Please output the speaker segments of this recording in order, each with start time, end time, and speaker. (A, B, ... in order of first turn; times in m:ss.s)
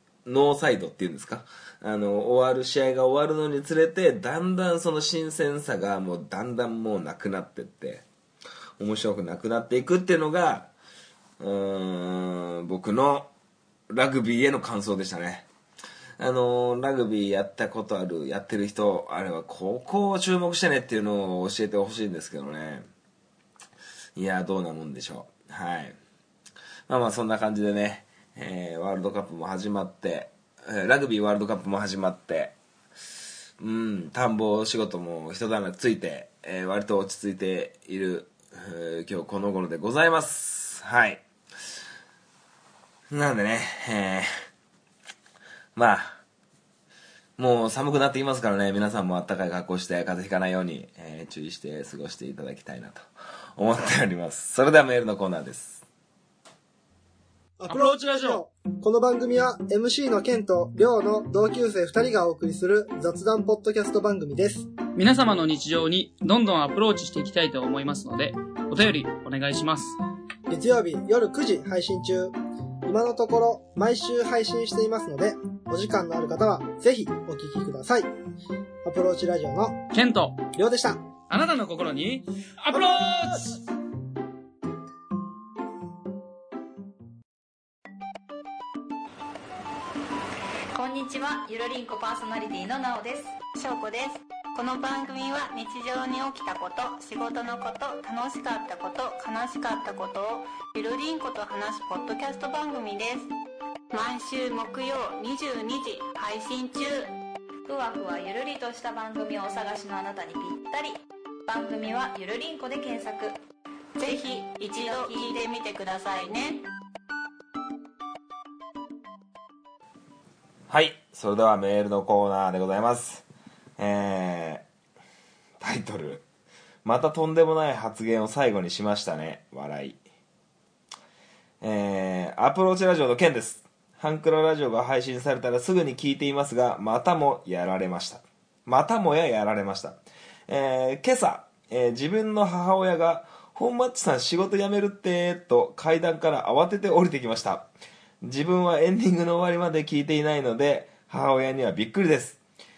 0:00.2-0:08.0 A
0:08.8-0:10.7 A
0:11.4-0:13.3 A
0:13.9-0:15.5 A
0:16.2-0:22.9 A
0:24.2-0:26.0 A
0:26.9-0:32.6 A
0:33.6-0:41.2 A
0:43.1-0:44.3 A
0:45.8-0:46.2 A
0:47.4-0:53.0 A
0:53.6-0:55.8 A
0:57.6-1:04.7 B
0:57.7-0:58.4 C
1:05.0-1:10.0 C
1:10.5-1:18.1 B
1:18.8-1:19.8 B
1:19.9-1:20.4 C
1:20.6-1:21.0 B
1:21.3-1:23.6 C
1:30.7-1:33.4 D
1:33.6-1:43.3 E
1:43.9-1:47.1 E
1:47.7-1:53.4 D
1:54.0-1:56.6 E
1:54.1-1:55.5 D
1:56.0-1:56.5 D
2:00.7-2:03.2 A
2:03.8-2:04.6 A
2:05.6-2:06.2 A
2:06.8-2:10.0 A
2:11.6-2:27.7 A
2:28.2-2:32.4 A